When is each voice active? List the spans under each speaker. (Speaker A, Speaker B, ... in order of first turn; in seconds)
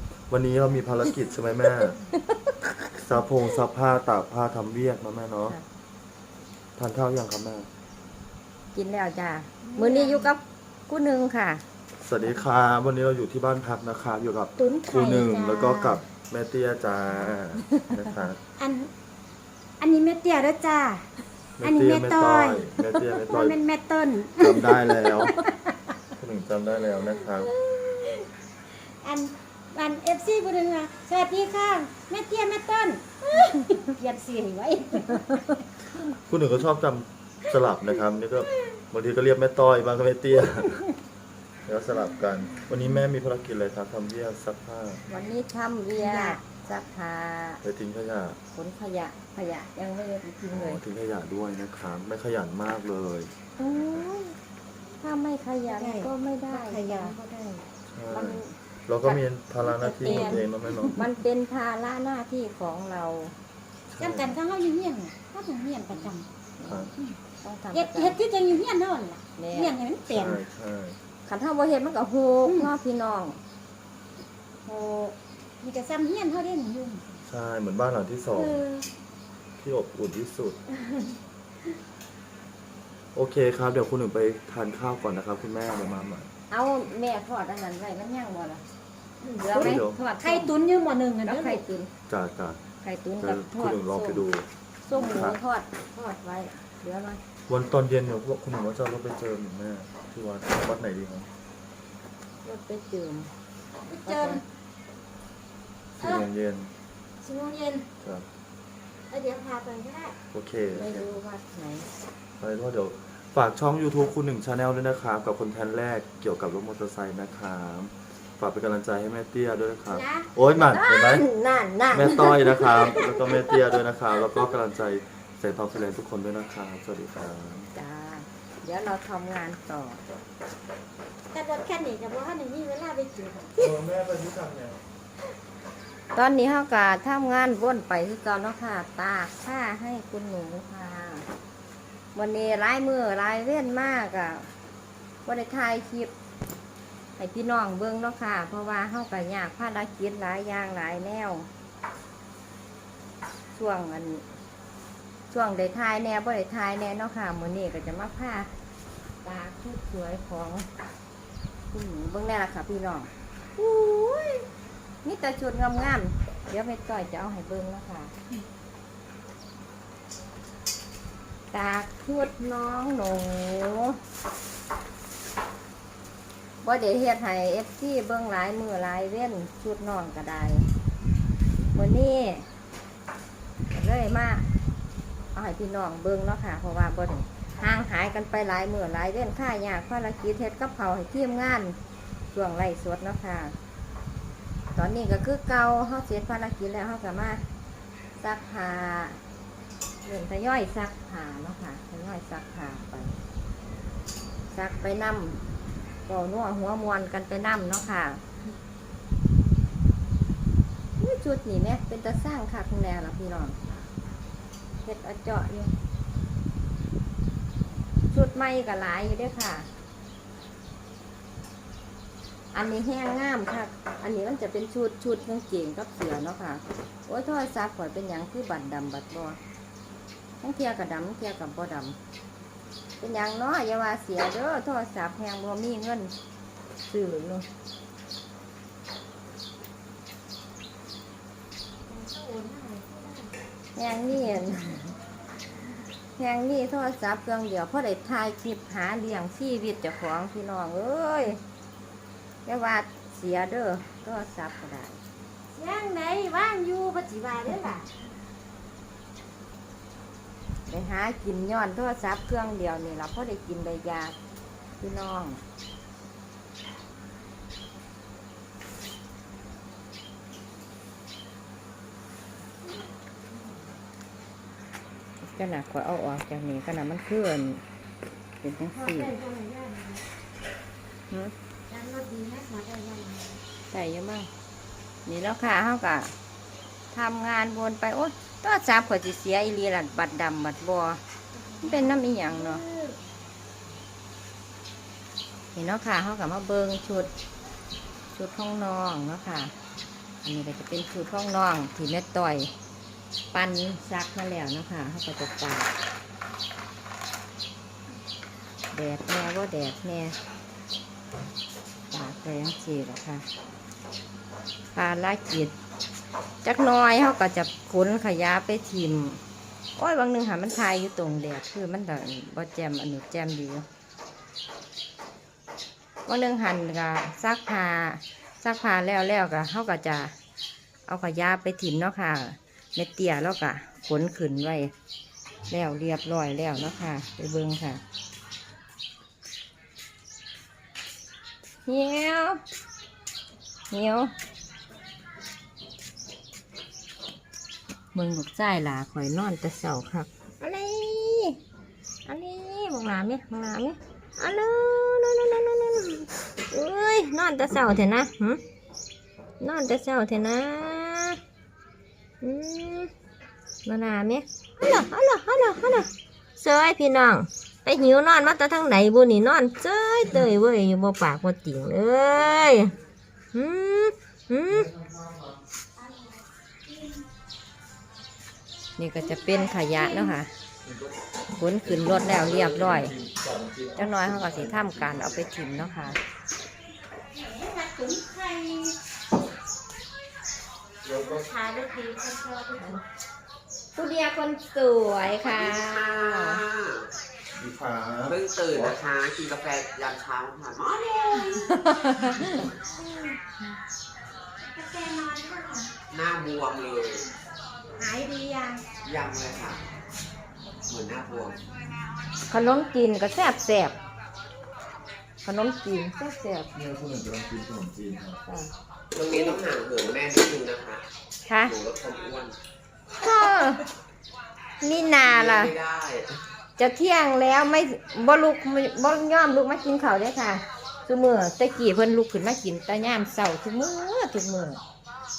Speaker A: 0.3-2.0, 3.0-5.6, 6.8-7.7, 12.0-18.4, 21.6-23.6, 24.4-25.4, 26.2-27.5, 36.3-40.8, 41.7-45.0, 47.6-48.4, 50.5-53.3, 57.9-61.0, 63.9-64.4, 66.7-66.9, 70.1-71.0, 77.3-78.6, 79.6-80.6, 83.2-86.3, 89.5-90.0, 92.1-92.6, 93.2-95.4, 97.5-101.3, 106.0-106.7, 110.3-111.2, 112.4-121.2, 121.9-127.7, 133.6-134.8, 374.5-375.2, 380.6-380.9, 381.6-385.3, 390.9-391.3, 397.3-398.8, 416.5-418.2
Speaker B: 2.1-2.8, 8.7-11.6, 17.6-18.1, 45.1-47.6, 48.5-50.8, 53.6-54.4, 55.0-57.1, 58.1-63.4, 65.9-66.9, 67.4-68.2, 69.4-69.8, 71.3-73.4, 74.7-75.2, 86.5-88.6, 89.4-90.5, 91.2-91.9, 92.8-94.3, 94.8-97.2, 102.4-103.3, 104.0-104.4, 110.7-111.9, 119.9-123.7, 127.8-130.0, 136.1-141.3, 142.1-144.5, 145.3-146.1, 147.2-151.5, 153.5-154.3, 155.3-158.5, 159.2-160.7, 161.7-163.1, 165.0-168.1, 171.5-174.0, 176.6-180.7, 181.7-182.5, 183.7-184.5, 185.3-191.8, 192.3-193.6, 194.8-197.4, 198.2-199.2, 200.0-203.2, 204.5-205.4, 206.1-208.2, 211.0-213.6, 214.8-215.7, 218.1-219.7, 222.5-229.4, 230.4-232.0, 233.0-236.1, 236.9-237.5, 243.8-244.9, 246.2-251.4, 252.4-255.0, 260.7-264.2, 264.8-265.4, 275.2-277.6, 278.4-279.1, 283.7-284.3, 285.1-286.1, 286.9-291.0, 291.6-292.6, 295.5-297.1, 298.1-299.5, 300.2-302.5, 303.3-305.7, 308.7-310.2, 311.9-313.3, 314.7-315.5, 316.4-319.2, 319.8-323.7, 326.1-330.1, 330.9-334.7, 335.5-337.8, 341.7-342.4, 343.7-344.1, 347.9-351.4, 352.1-358.4, 359.4-361.2, 362.2-362.9, 363.6-372.7, 373.3-374.7, 378.8-380.3, 381.4-382.9, 383.8-386.0, 393.8-396.4, 401.3-403.2, 412.3-413.8, 415.2-416.5, 418.3-418.5, 421.3-421.6, 423.0-423.6, 424.6-425.6, 426.6-434.6
Speaker C: 9.6-10.3, 14.6-15.8, 18.6-18.9, 19.8-21.1, 21.6-25.5, 27.4-28.3, 29.0-35.6, 46.0-46.4, 55.7-57.6, 64.0-66.3, 67.7-70.4, 75.6-77.1, 78.3-78.9, 89.2-89.6, 90.2-91.6, 103.9-104.4, 107.2-107.9, 109.1-110.2, 131.3-133.5, 241.9-243.3, 255.5-257.9, 278.7-280.0, 281.7-283.4, 291.6-292.9, 379.0-380.2, 387.1-388.8, 391.0-392.8, 404.6-405.7, 407.8-408.6
Speaker D: 163.6-164.4, 395.2-396.9, 398.1-401.6, 404.6-407.1, 407.9-409.6, 410.7-411.4, 418.9-420.8, 421.4-422.4, 425.0-426.2